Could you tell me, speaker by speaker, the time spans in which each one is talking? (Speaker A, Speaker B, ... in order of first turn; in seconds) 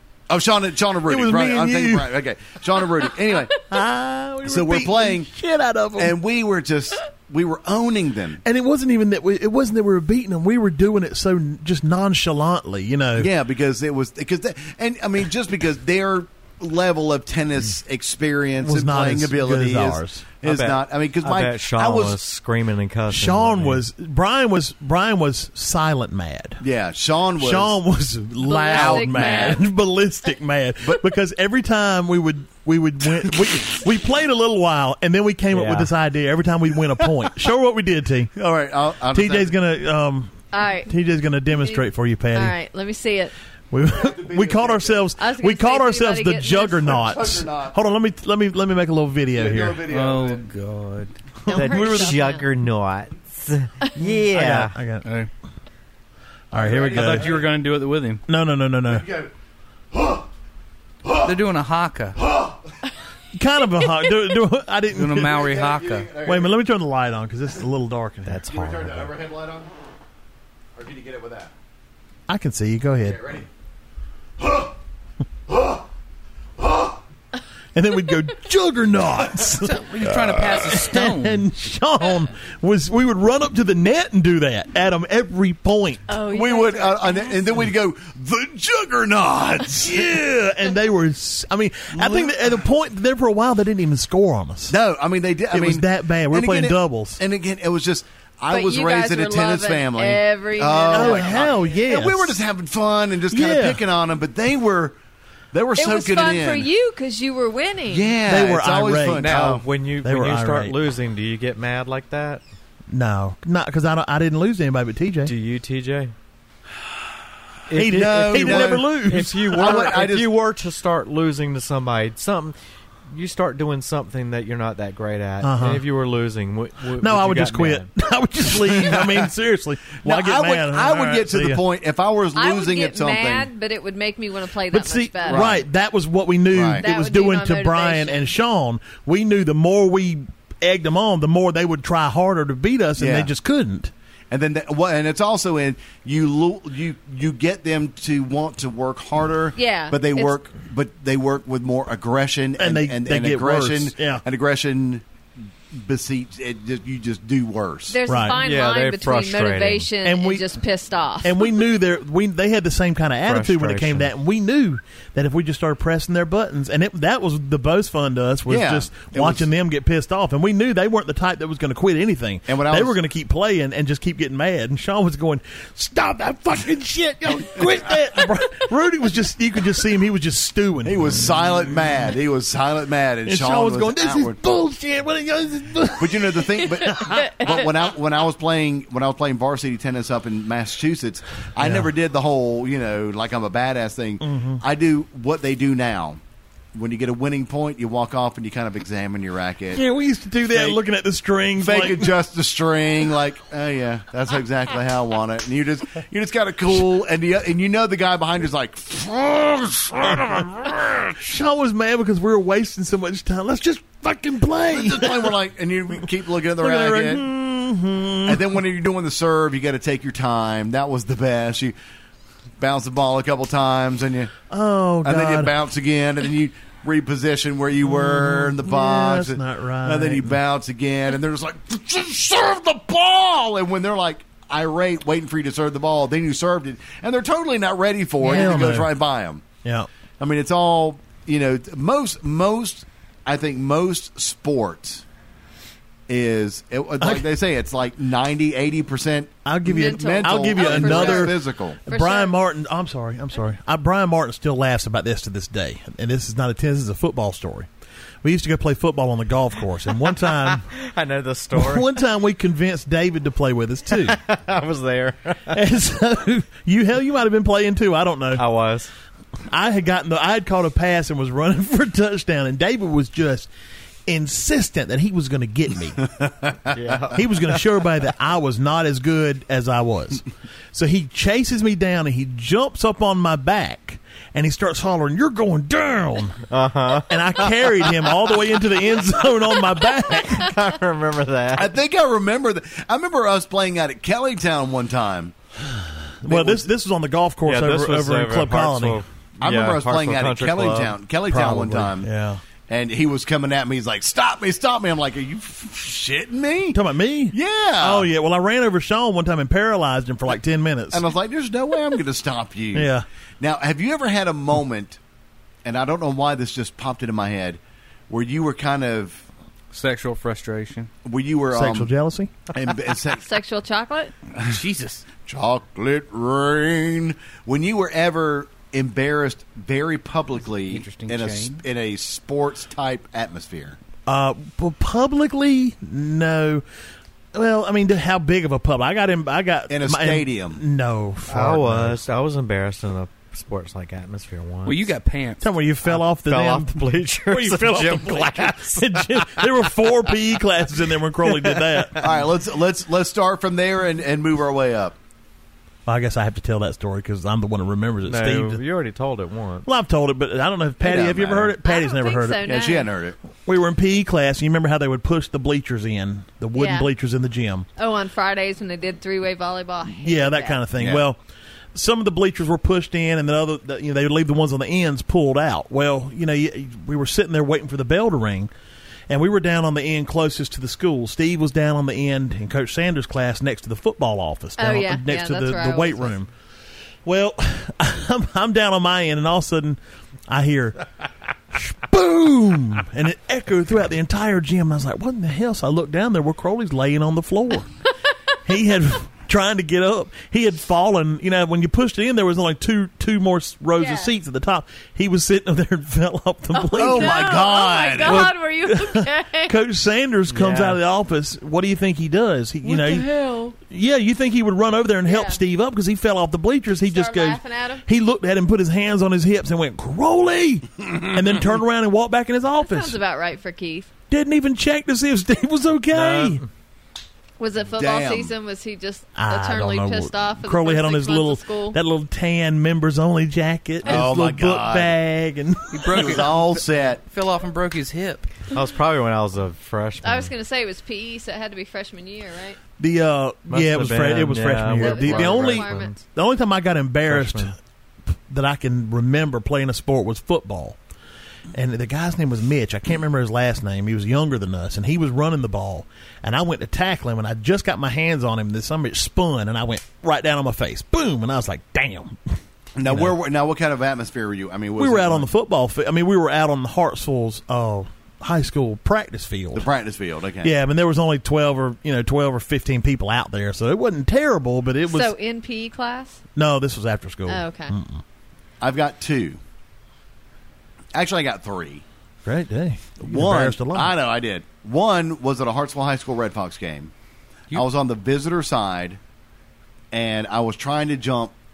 Speaker A: 0.3-3.6, 4.4-5.3, 6.0-8.4, 13.2-22.2, 26.6-27.8, 28.7-29.6, 33.2-33.6, 38.3-39.5, 43.9-45.1, 46.8-47.8, 49.3-50.4, 56.5-57.5, 58.9-59.3, 59.9-60.3, 61.0-61.4, 62.1-62.7, 65.2-66.5, 68.5-69.7, 70.7-71.5, 73.0-73.5, 74.4-74.8, 75.5-75.8, 76.6-77.0, 86.3-90.2, 91.9-92.6, 94.7-105.0, 105.5-106.7, 107.9-109.6, 117.8-118.9, 119.5-120.3, 128.5-129.3, 130.0-133.5, 135.2-135.6, 136.5-136.8, 143.0-143.3, 144.3-155.0, 155.7-158.0, 168.5-169.5, 172.5-173.0, 180.8-184.4, 186.0-196.2, 196.7-199.8, 200.5-200.8, 201.6-211.0, 214.7-217.2, 218.2-221.7, 222.6-224.3, 225.0-239.4, 240.2-245.0, 246.1-251.8, 276.2-276.8, 291.5-295.4, 296.2-296.7, 299.4-302.1, 302.7-306.8, 307.3-308.1, 310.9-315.0, 315.6-319.2, 321.0-321.9, 322.5-323.2, 325.2-333.8, 339.7-340.6, 352.0-354.9, 360.8-361.6, 362.4-363.2, 370.8-371.0, 406.7-408.3, 427.7-428.3, 433.8-434.9, 435.9-437.0, 462.8-465.3, 469.5-470.5, 478.6-479.4, 480.9-481.8, 483.0-486.9, 487.5-489.0, 489.9-491.3
Speaker B: 1.1-2.1, 3.7-6.1, 8.4-13.3, 18.6-20.3, 23.1-26.6, 27.4-38.3, 39.1-40.3, 40.9-42.5, 43.7-49.8, 51.4-52.2, 54.0-55.0, 56.5-57.3, 58.3-59.0, 63.3-65.3, 66.2-68.4, 72.3-73.2, 77.7-86.2, 89.8-94.8, 95.5-97.2, 100.9-102.4, 103.3-103.8, 108.2-110.8, 112.9-115.3, 117.7-119.8, 125.4-125.9, 127.0-131.6, 134.7-143.9, 152.6-154.2, 158.1-158.4, 160.0-160.4, 161.2-181.3, 183.2-187.3, 191.6-191.9, 194.2-194.6, 199.7-202.1, 210.1-210.5, 211.0-215.3, 216.6-218.4, 224.5-225.5, 227.8-230.4, 238.2-238.9, 239.6-239.9, 249.4-257.7, 258.2-260.6, 261.5-264.2, 265.5-268.4, 269.5-273.5, 274.1-276.0, 277.1-286.4, 287.1-290.5, 295.7-299.0, 301.3-302.4, 306.7-311.0, 312.7-313.0, 321.5-322.3, 334.1-336.6, 337.3-342.0, 345.4-352.1, 355.9-358.6, 359.6-362.6, 363.4-367.7, 370.0-371.2, 371.7-378.5, 379.1-386.3, 387.0-390.8, 391.5-397.7, 398.4-407.4, 408.0-423.0, 424.1-426.4, 429.1-436.2, 442.8-447.5, 448.3-450.8, 451.5-462.2, 464.8-469.6, 470.4-475.1, 476.4-478.0, 482.2-483.9
Speaker C: 20.4-23.8, 35.5-35.9, 51.5-54.8, 68.2-69.1, 109.1-112.4, 115.2-116.1, 117.7-122.5, 123.1-127.9, 158.3-159.9, 163.3-164.1, 260.0-261.9, 264.0-265.6, 268.4-268.9, 276.7-277.6, 286.5-287.5, 290.3-291.7, 297.4-301.0, 341.3-344.9, 345.8-349.9, 351.2-352.0, 358.0-359.7, 410.3-410.8, 425.9-426.4, 438.5-440.3, 443.5-446.0, 447.1-447.5
Speaker D: 28.4-29.6, 40.5-41.0, 41.5-43.3, 45.2-47.0, 51.5-52.4, 86.1-87.6, 98.5-101.5, 105.8-108.2, 132.3-135.6, 136.8-138.3, 149.6-150.3, 157.9-161.5, 186.9-187.7, 249.7-251.4, 251.9-252.3, 323.2-324.1, 361.6-362.9, 366.5-366.9, 367.8-370.6, 384.6-386.1, 403.8-404.1, 406.5-409.5, 415.1-415.4, 416.9-417.8, 422.6-423.9, 427.4-431.8, 440.0-442.6, 444.8-445.9, 474.9-476.2, 477.3-477.7
Speaker E: 49.9-51.1, 55.0-55.3, 56.9-58.2, 61.2-62.2, 64.9-66.1, 79.6-81.5, 319.7-320.9, 324.4-325.0, 330.7-331.6, 344.6-345.5, 412.6-413.5, 435.7-438.3